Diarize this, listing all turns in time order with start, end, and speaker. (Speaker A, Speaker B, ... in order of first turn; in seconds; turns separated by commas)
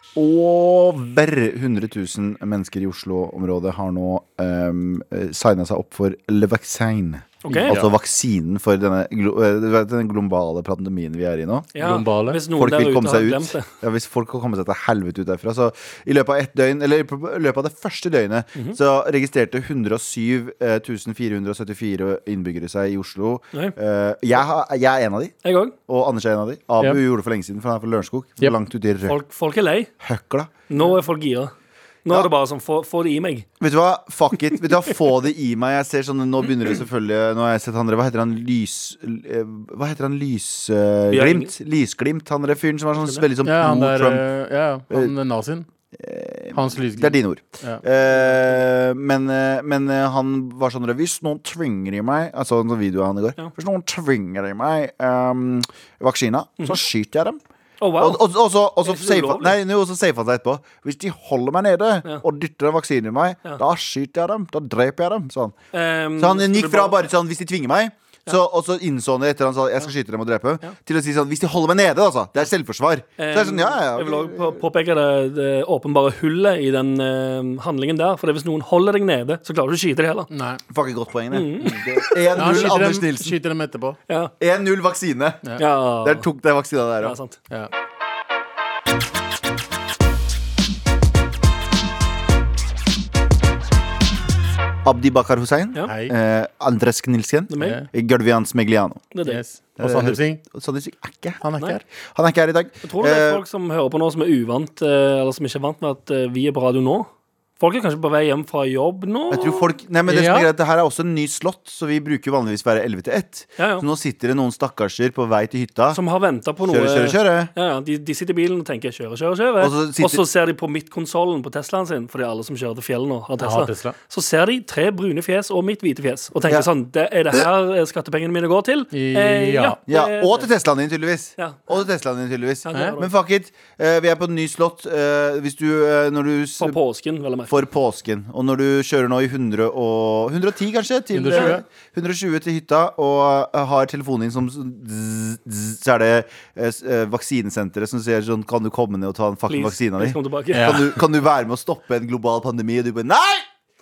Speaker A: 0.2-11.7, Speaker B: 7.4-7.8, Speaker B: 11.7-13.7, Speaker C: 11.8-12.4, Speaker A: 12.5-25.4, Speaker B: 25.4-25.8, Speaker A: 25.9-29.2, Speaker B: 29.1-29.9, Speaker A: 30.0-30.5, Speaker B: 30.7-31.5, Speaker B: 32.0-33.5, Speaker A: 33.6-44.2, Speaker B: 41.1-41.5, Speaker B: 43.0-43.2, Speaker C: 43.4-45.7, Speaker A: 45.9-57.4, Speaker C: 46.5-47.8, Speaker B: 48.1-48.6, Speaker B: 57.8-58.2, Speaker A: 58.0-65.5, Speaker B: 58.8-59.6, Speaker B: 65.7-67.0, Speaker A: 66.2-74.6, Speaker B: 73.2-80.3, Speaker C: 80.3-80.6, Speaker A: 80.7-83.4, Speaker B: 81.3-82.7, Speaker C: 82.3-84.0, Speaker B: 84.1-84.3, Speaker A: 84.4-85.5, Speaker B: 85.6-86.3, Speaker A: 86.0-87.2, Speaker B: 87.0-87.4, Speaker A: 94.8-99.1, Speaker C: 95.9-96.1, Speaker B: 97.5-97.8, Speaker C: 97.6-97.9, Speaker B: 99.1-99.4, Speaker C: 99.3-100.4, Speaker A: 99.8-101.4, Speaker C: 101.4-101.8, Speaker A: 102.0-103.4, Speaker B: 102.8-109.7, Speaker A: 109.3-116.0, Speaker C: 110.1-110.5, Speaker B: 113.6-113.8, Speaker B: 115.9-130.5, Speaker A: 116.7-117.5, Speaker A: 119.6-120.2, Speaker C: 123.4-124.0, Speaker C: 128.9-129.8, Speaker A: 129.9-136.8, Speaker B: 131.4-131.7, Speaker B: 132.7-133.1, Speaker B: 136.6-137.6, Speaker A: 137.5-153.5, Speaker C: 141.1-141.7, Speaker B: 141.3-141.6, Speaker B: 149.5-150.8, Speaker C: 150.5-151.0